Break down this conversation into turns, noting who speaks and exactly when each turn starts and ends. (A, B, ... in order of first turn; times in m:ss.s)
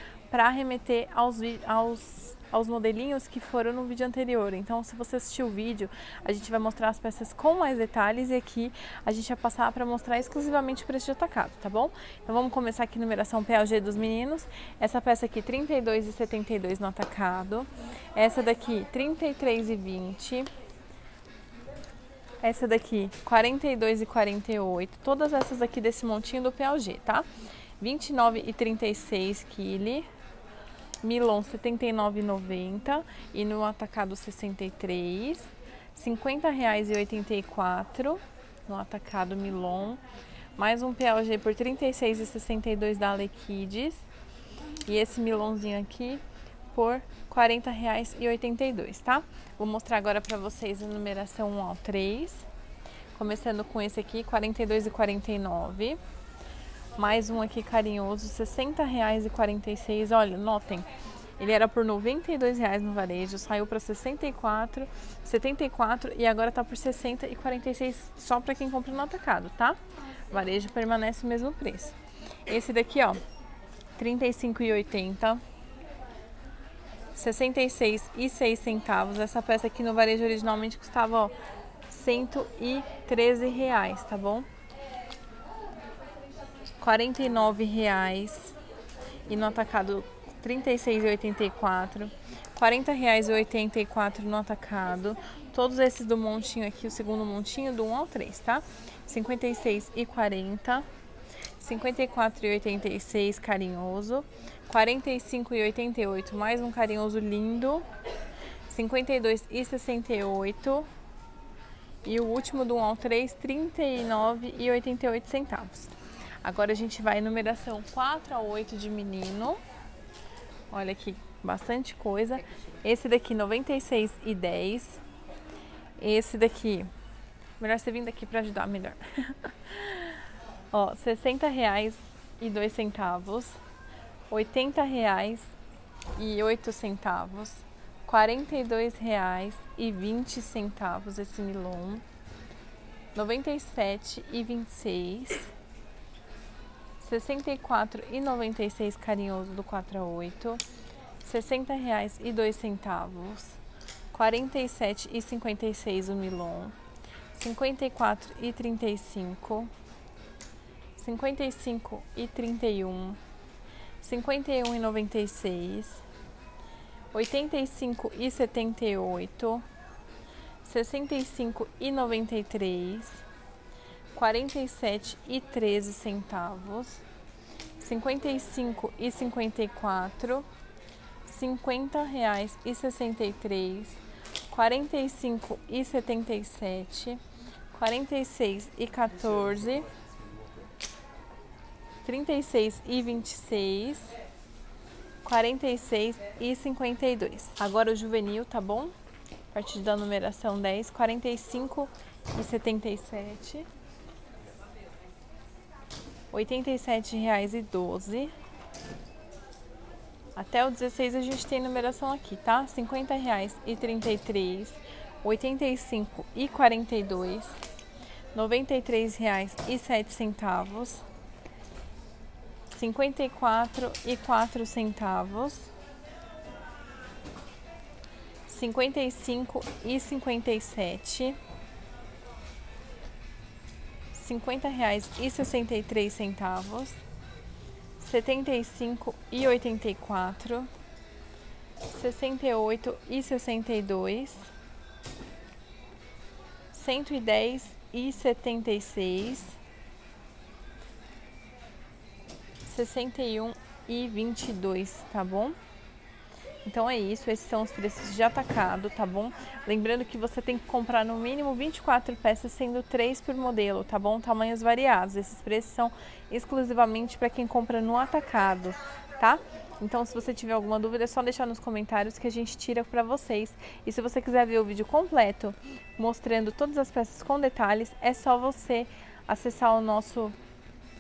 0:00.3-0:20.5 A
0:22.4-0:27.3 A
0:27.8-0:30.1 A
0:31.0-0:40.0 A
0:40.6-0:44.0 A
0:44.9-0:46.2 A
0:46.7-0:52.5 A
0:53.2-0:56.0 A
0:57.0-1:09.8 A
1:10.3-1:13.2 A
1:14.0-1:15.4 A
1:17.2-1:21.3 A
1:21.9-1:24.5 A
1:26.8-1:28.6 A
1:29.3-1:40.9 A
1:41.6-1:47.8 A
1:48.7-1:50.9 A
1:52.0-1:59.6 A
2:00.7-2:05.0 A
2:06.0-2:06.9 A
2:07.6-2:13.6 A
2:14.3-2:15.5 A
2:16.1-2:22.0 A
2:23.2-2:25.5 A
2:27.0-2:30.6 A
2:31.2-2:33.6 A
2:34.1-2:36.8 A
2:37.3-2:39.7 A
2:41.0-2:43.2 A
2:44.0-2:46.0 A
2:47.1-2:49.6 A
2:50.6-2:53.2 A
2:54.2-2:57.0 A
2:57.8-3:00.5 A
3:01.2-3:07.2 A
3:07.7-3:09.9 A
3:12.0-3:14.1 A
3:15.2-3:18.9 A
3:19.5-3:23.7 A
3:26.3-3:28.3 A
3:30.4-3:37.6 A
3:38.3-3:41.0 A
3:42.8-3:45.7 A
3:48.5-3:51.4 A
3:54.1-3:57.0 A
3:58.0-4:00.7 A
4:01.9-4:04.5 A
4:06.7-4:09.6 A
4:12.6-4:15.6 A
4:16.6-4:40.4 A